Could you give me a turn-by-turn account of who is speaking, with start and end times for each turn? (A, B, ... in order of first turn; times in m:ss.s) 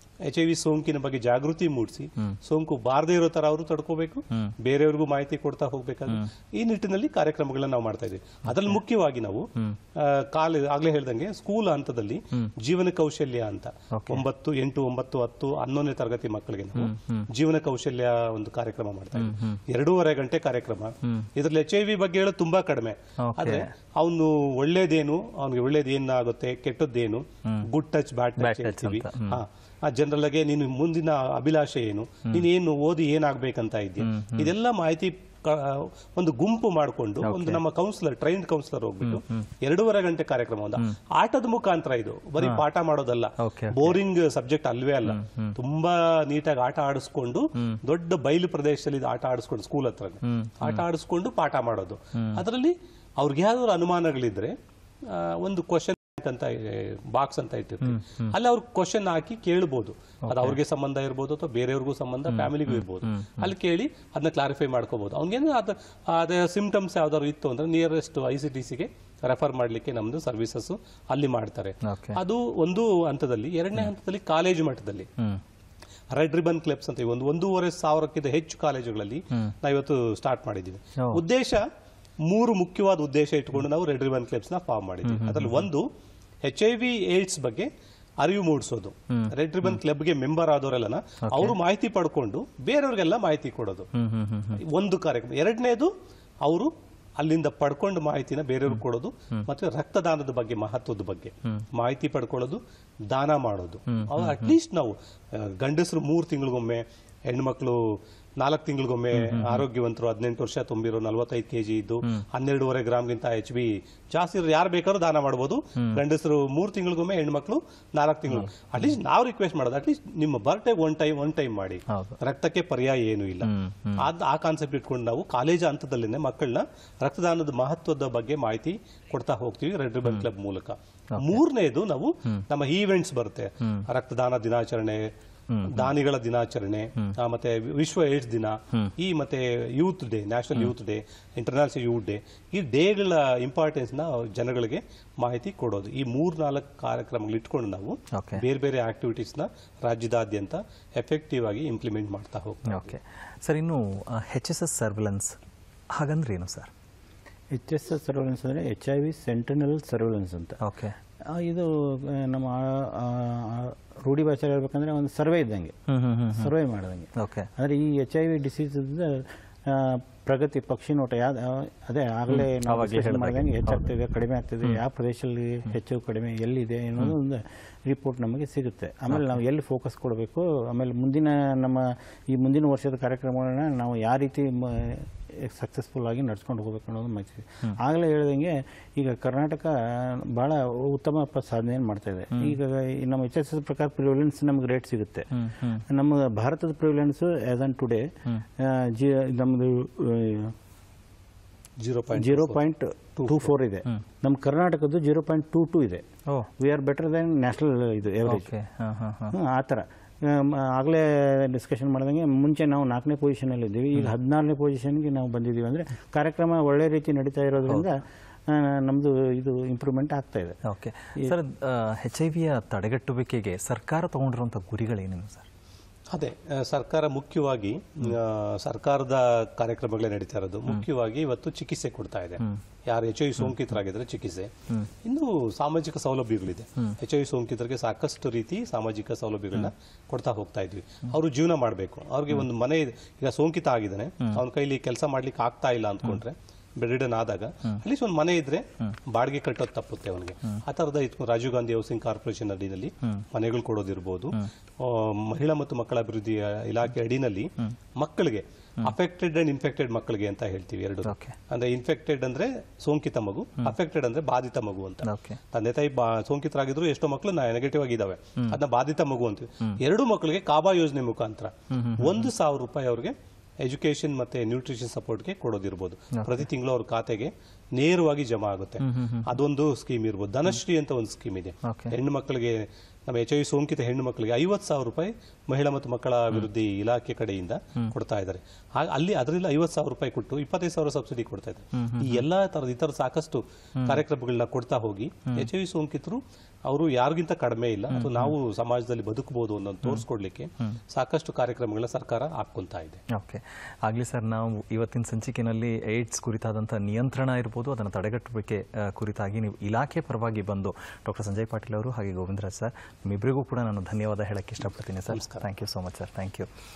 0:00.3-1:15.1 A
0:08.5-0:08.8 B
0:13.9-0:14.2 B
0:16.7-0:17.3 B
0:19.2-0:19.6 B
0:21.0-0:21.3 B
0:23.2-0:23.7 B
0:28.4-0:29.4 B
0:34.0-0:34.5 B
0:37.2-0:37.6 B
0:39.0-0:39.5 B
0:43.4-0:44.0 B
0:45.0-0:45.6 B
0:50.2-0:50.8 B
0:52.1-0:52.4 B
0:57.8-0:58.3 B
1:00.2-1:00.6 B
1:02.3-1:03.5 B
1:11.8-1:12.2 B
1:16.1-1:21.7 A
1:21.0-1:21.2 B
1:22.2-1:25.9 A
1:25.0-1:25.7 B
1:26.4-1:27.7 A
1:28.2-1:33.9 A
1:29.1-1:29.8 B
1:31.3-1:31.6 B
1:33.9-1:34.6 B
1:34.6-1:35.9 A
1:36.4-2:15.1 A
1:43.9-1:44.6 B
1:49.1-1:49.7 B
1:55.8-1:56.0 B
1:58.3-1:58.9 B
2:01.9-2:02.2 B
2:03.4-2:04.1 B
2:11.1-2:11.4 B
2:15.5-2:15.9 B
2:15.7-2:32.9 A
2:28.1-2:28.4 B
2:32.7-2:35.4 B
2:35.9-2:36.7 B
2:37.5-2:40.6 C
2:40.6-2:41.0 B
2:41.2-2:45.8 C
2:45.9-2:46.5 B
2:46.3-3:15.3 C
2:47.2-2:47.5 B
2:52.3-2:53.9 B
2:59.1-2:59.4 B
3:15.3-3:15.8 B
3:15.9-3:20.5 C
3:21.8-3:22.6 A
3:22.1-3:26.0 C
3:23.2-3:23.5 A
3:26.6-3:28.5 C
3:28.2-3:29.3 B
3:29.3-3:40.6 C
3:40.6-3:45.5 B
3:46.1-3:54.5 A
3:55.0-5:03.0 A
4:21.0-4:21.4 B
4:25.0-4:25.4 B
4:31.7-4:32.3 B
4:36.1-4:36.4 B
4:38.8-4:39.3 B
4:41.6-4:42.0 B
4:51.7-4:52.2 B
4:57.9-4:58.4 B
5:03.1-5:16.5 B
5:15.1-5:15.4 A